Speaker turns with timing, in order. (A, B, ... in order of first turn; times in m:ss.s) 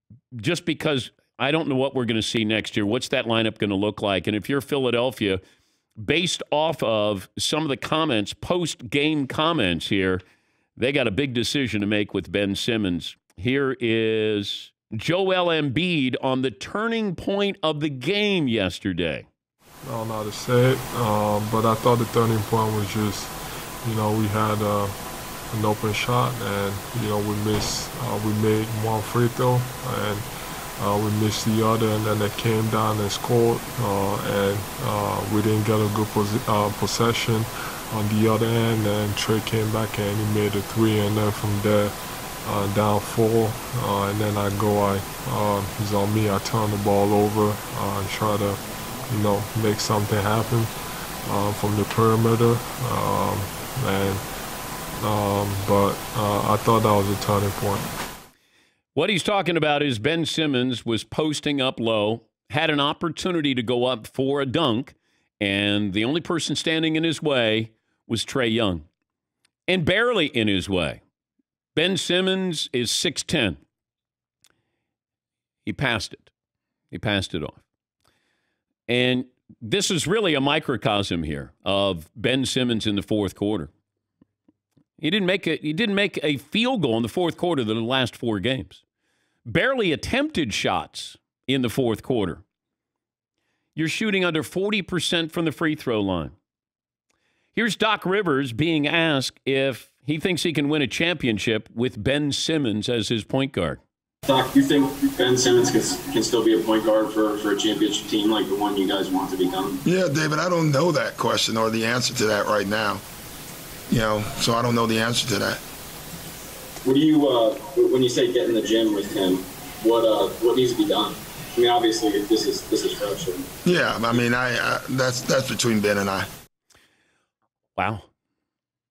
0:00.3-0:05.4 A
0:06.0-0:10.2 A
0:10.8-0:19.3 A
0:19.8-0:24.9 B
0:25.5-0:30.3 B
0:30.8-0:41.9 B
0:42.4-0:50.7 B
0:51.3-0:54.2 B
0:55.0-0:57.9 B
0:59.0-1:08.8 A
1:09.7-1:11.0 A
1:11.8-1:13.6 A
1:15.7-1:16.3 A
1:16.9-1:17.6 A
1:18.9-1:23.7 A
1:25.0-1:28.8 A
1:29.5-1:32.4 A
1:33.8-1:36.3 A
1:37.5-1:43.8 A
1:44.2-1:49.8 C
1:49.8-1:53.0 D
1:53.9-1:55.6 D
1:56.8-2:03.5 C
2:03.6-2:06.3 D
2:07.8-2:08.1 A